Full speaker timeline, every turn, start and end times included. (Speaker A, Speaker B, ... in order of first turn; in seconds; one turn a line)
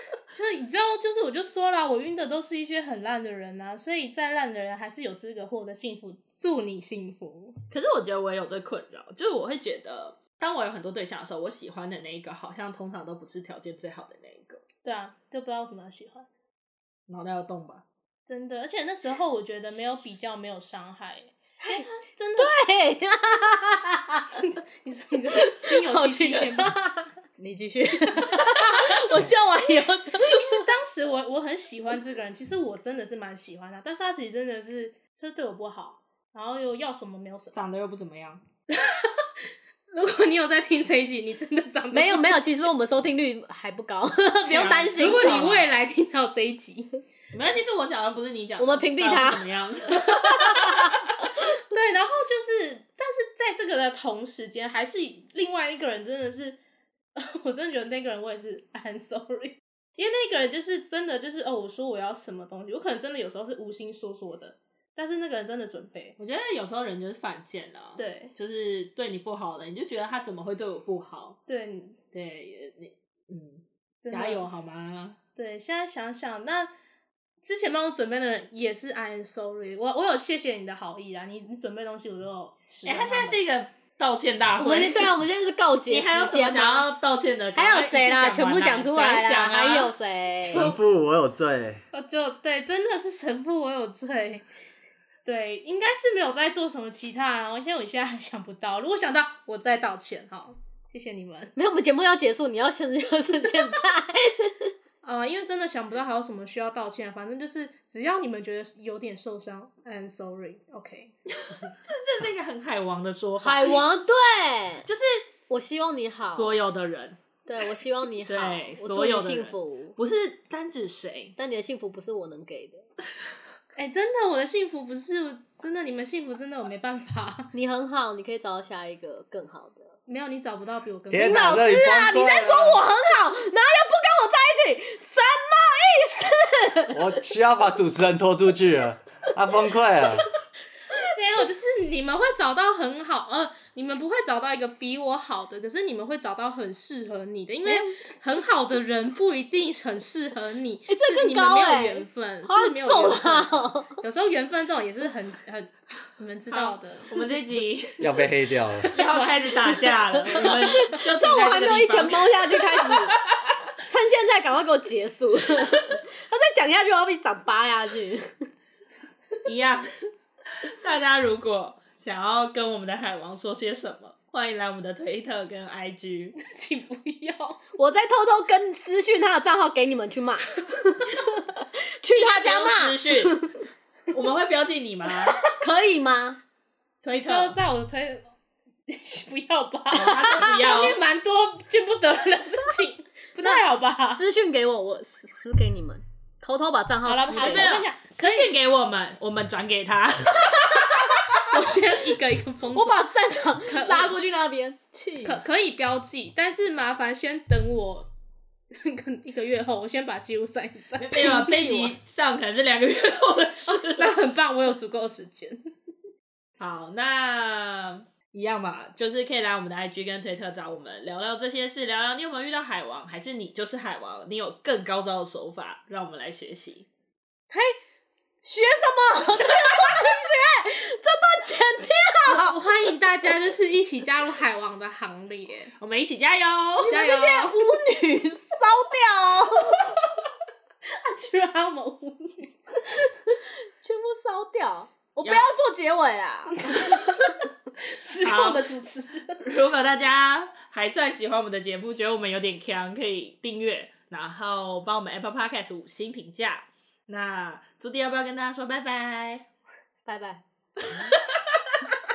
Speaker A: 0.3-7.5
Speaker B: 7.7-14.6
Speaker A: 14.8-16.3
Speaker B: 17.1-17.9
Speaker A: 18.3-22.5
Speaker C: 21.6-24.4
Speaker A: 24.4-26.8
Speaker C: 25.3-30.7
Speaker A: 28.2-28.9
Speaker A: 30.3-37.5
Speaker B: 37.5-38.4
Speaker A: 38.7-39.3
Speaker A: 39.9-42.3
Speaker C: 41.9-45.5
Speaker B: 44.5-45.7
Speaker A: 45.0-47.0
Speaker B: 47.3-50.9
Speaker C: 48.6-49.5
Speaker C: 50.0-51.0
Speaker A: 51.7-56.6
Speaker A: 57.1-66.2
Speaker B: 66.2-71.4
Speaker A: 68.0-68.3
Speaker A: 71.5-72.0
Speaker B: 72.1-75.2
Speaker A: 74.0-74.5
Speaker A: 75.4-76.7
Speaker A: 77.4-83.4
Speaker B: 82.8-85.2
Speaker C: 84.6-86.9
Speaker B: 85.9-89.9
Speaker C: 87.5-90.7
Speaker D: 90.5-91.8
Speaker A: 90.5-90.8
Speaker A: 91.9-94.5
Speaker A: 95.2-101.5
Speaker C: 101.6-104.7
Speaker A: 105.0-111.1
Speaker B: 111.4-113.8
Speaker C: 113.4-114.9
Speaker B: 114.9-115.2
Speaker C: 115.5-116.6
Speaker B: 116.3-117.2
Speaker C: 117.5-120.0
Speaker B: 118.3-121.3
Speaker C: 121.4-122.9
Speaker A: 123.8-127.5
Speaker C: 127.5-129.9
Speaker A: 130.1-131.7
Speaker D: 131.1-132.8
Speaker C: 131.2-137.0
Speaker D: 136.9-140.3
Speaker A: 141.1-157.3
Speaker C: 147.7-148.0
Speaker C: 150.9-154.0
Speaker B: 156.5-158.0
Speaker D: 158.0-158.9
Speaker A: 158.8-159.8
Speaker B: 158.9-163.2
Speaker C: 160.3-163.2
Speaker C: 163.8-168.5
Speaker B: 169.4-170.1
Speaker B: 170.6-176.4
Speaker A: 176.4-177.6
Speaker C: 177.8-183.5
Speaker B: 182.4-183.5
Speaker B: 184.1-185.5
Speaker C: 185.6-186.4
Speaker B: 187.0-187.6
Speaker A: 187.1-188.3
Speaker A: 188.9-194.2
Speaker B: 189.9-191.0
Speaker C: 193.4-197.7
Speaker A: 197.1-198.6
Speaker B: 197.3-201.5
Speaker A: 201.4-203.1
Speaker C: 202.7-205.4
Speaker A: 203.7-204.2
Speaker A: 205.2-208.1
Speaker A: 208.7-211.8
Speaker B: 211.0-214.2
Speaker A: 213.7-215.6
Speaker B: 216.6-226.9
Speaker C: 227.5-227.8
Speaker C: 228.4-232.6
Speaker A: 232.3-235.7
Speaker B: 235.8-236.9
Speaker A: 236.8-237.7
Speaker C: 236.8-239.8
Speaker A: 240.9-242.6
Speaker C: 243.1-246.7
Speaker B: 245.2-245.5
Speaker A: 246.7-247.3
Speaker A: 247.8-249.4
Speaker B: 248.2-248.7
Speaker B: 249.4-259.5
Speaker C: 260.1-261.2
Speaker B: 261.2-262.0